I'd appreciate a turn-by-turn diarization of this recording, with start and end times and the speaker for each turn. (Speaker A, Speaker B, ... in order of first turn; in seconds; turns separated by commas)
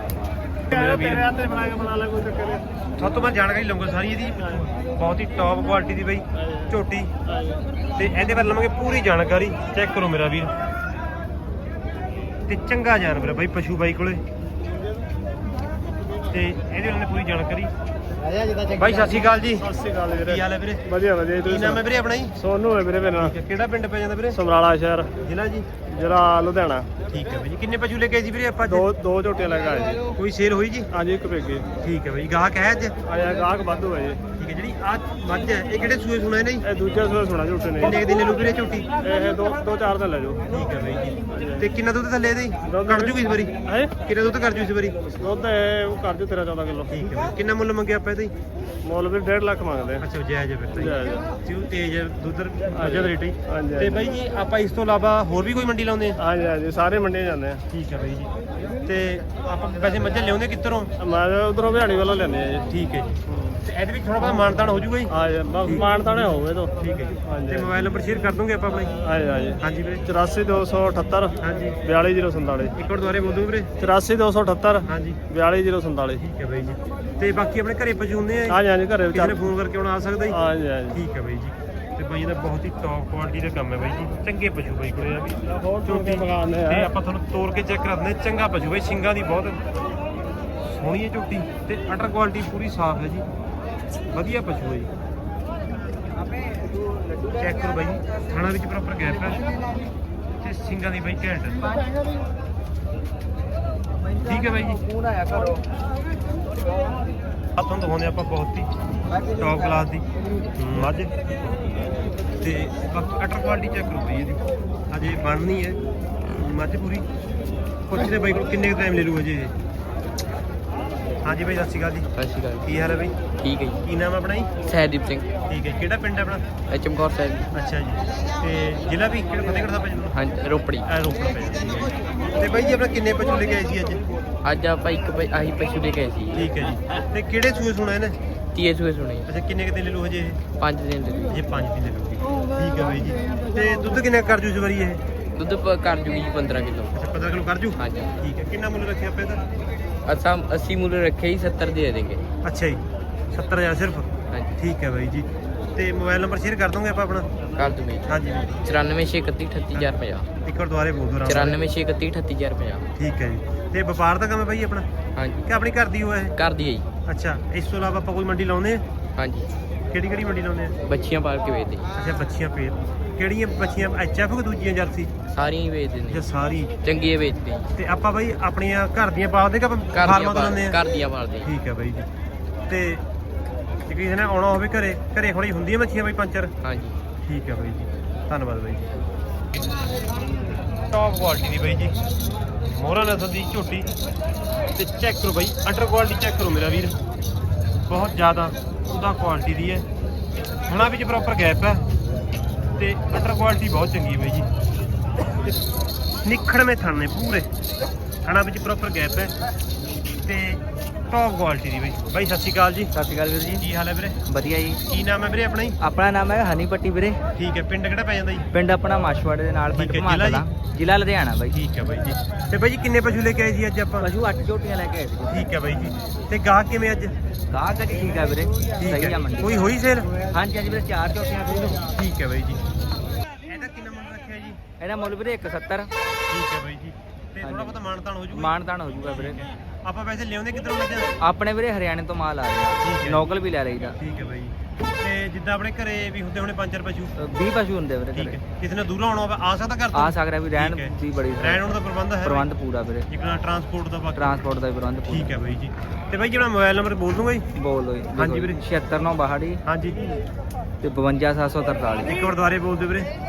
Speaker A: 0.7-1.3, Speaker B: 0.7-2.6, Speaker A: 3.0-7.1, Speaker B: 7.2-7.6, Speaker A: 8.0-10.5, Speaker A: 12.5-14.2, Speaker A: 16.3-17.7, Speaker A: 18.7-19.6, Speaker B: 19.0-21.8, Speaker A: 20.2-20.8, Speaker A: 21.4-22.3, Speaker B: 22.4-23.3, Speaker A: 23.1-24.4, Speaker B: 24.3-25.1, Speaker A: 25.2-25.7, Speaker B: 25.8-26.9, Speaker A: 27.1-28.9, Speaker B: 28.7-30.0, Speaker A: 30.1-30.9, Speaker B: 30.9-31.6, Speaker A: 31.8-32.9, Speaker B: 33.0-34.2, Speaker A: 34.4-36.6, Speaker B: 36.6-38.0, Speaker A: 37.8-38.9, Speaker B: 39.0-40.4, Speaker A: 40.5-45.0, Speaker B: 41.3-41.7, Speaker B: 42.6-43.9, Speaker B: 45.2-47.0, Speaker A: 46.9-48.3, Speaker B: 48.8-50.0, Speaker A: 50.0-56.2, Speaker B: 50.7-51.2, Speaker B: 52.7-54.1, Speaker B: 56.2-57.6, Speaker A: 57.7-58.3, Speaker A: 58.8-60.9, Speaker B: 61.0-62.6, Speaker A: 62.7-65.1, Speaker B: 65.1-66.7, Speaker A: 66.8-68.9, Speaker B: 67.2-67.7, Speaker B: 69.0-72.7, Speaker A: 69.6-70.0, Speaker A: 71.4-71.8, Speaker A: 72.7-73.7, Speaker B: 73.8-76.2, Speaker A: 74.9-75.2, Speaker A: 76.2-78.6, Speaker B: 78.5-79.4, Speaker A: 79.1-80.4, Speaker B: 80.3-81.0, Speaker A: 80.9-89.6, Speaker B: 85.5-86.9, Speaker A: 90.6-93.2, Speaker A: 94.1-94.9, Speaker A: 97.3-99.4, Speaker A: 100.4-101.8, Speaker A: 104.2-104.9, Speaker A: 107.6-108.7, Speaker A: 109.2-110.0, Speaker A: 110.5-111.1, Speaker A: 112.4-115.8, Speaker A: 116.3-117.0, Speaker A: 117.9-119.5, Speaker A: 121.2-122.1, Speaker C: 122.1-123.8, Speaker A: 122.6-123.1, Speaker A: 123.8-124.5, Speaker C: 124.6-125.3, Speaker A: 125.5-126.4, Speaker C: 126.7-127.5, Speaker A: 127.5-130.2, Speaker C: 130.1-130.9, Speaker A: 130.8-134.0, Speaker C: 134.4-136.5, Speaker A: 136.3-138.2, Speaker C: 138.5-139.3, Speaker A: 139.3-140.4, Speaker C: 140.6-141.4, Speaker A: 141.3-145.0, Speaker C: 145.3-146.9, Speaker A: 146.9-149.4, Speaker C: 147.8-148.1, Speaker C: 150.1-152.2, Speaker A: 152.4-157.3, Speaker C: 157.6-160.3, Speaker A: 158.1-158.6, Speaker A: 160.4-161.6, Speaker C: 161.2-162.9, Speaker A: 162.9-164.8, Speaker C: 165.2-165.4, Speaker A: 165.4-166.3, Speaker C: 166.3-166.9, Speaker A: 167.1-168.8, Speaker C: 169.2-169.5, Speaker A: 169.9-170.7, Speaker C: 170.8-171.9, Speaker A: 171.9-175.1, Speaker C: 175.3-176.2, Speaker A: 176.1-176.7, Speaker C: 176.8-177.7, Speaker A: 177.8-180.8, Speaker C: 179.9-181.5, Speaker A: 181.4-182.1, Speaker A: 182.7-183.0, Speaker A: 183.8-186.5, Speaker C: 186.6-186.9, Speaker A: 187.2-188.8, Speaker A: 190.9-192.0, Speaker A: 192.6-193.9, Speaker A: 194.7-196.9, Speaker A: 197.9-199.8, Speaker A: 200.7-201.8, Speaker A: 202.8-204.5, Speaker A: 206.2-207.5, Speaker A: 208.2-209.3, Speaker A: 210.2-212.9, Speaker D: 212.9-213.6, Speaker A: 213.6-214.2, Speaker D: 214.3-214.8, Speaker A: 214.9-215.8, Speaker D: 215.8-217.2, Speaker A: 217.3-218.5, Speaker D: 218.5-221.6, Speaker A: 219.7-220.4, Speaker A: 221.5-224.1, Speaker D: 224.0-225.5, Speaker A: 225.3-227.1, Speaker D: 227.5-231.8, Speaker A: 228.8-230.1, Speaker A: 231.9-232.7, Speaker A: 233.5-234.6, Speaker D: 234.8-235.9, Speaker A: 236.3-241.1, Speaker D: 237.4-237.8, Speaker D: 238.3-239.4, Speaker D: 241.2-244.0, Speaker A: 242.8-243.3, Speaker A: 244.0-247.1, Speaker D: 247.2-248.4, Speaker A: 248.1-252.5, Speaker D: 249.9-253.1, Speaker A: 253.1-254.4, Speaker D: 254.2-255.4, Speaker A: 255.1-257.5, Speaker D: 257.5-259.6, Speaker A: 258.1-258.6, Speaker A: 259.6-260.0, Speaker D: 260.8-262.1, Speaker A: 262.0-263.1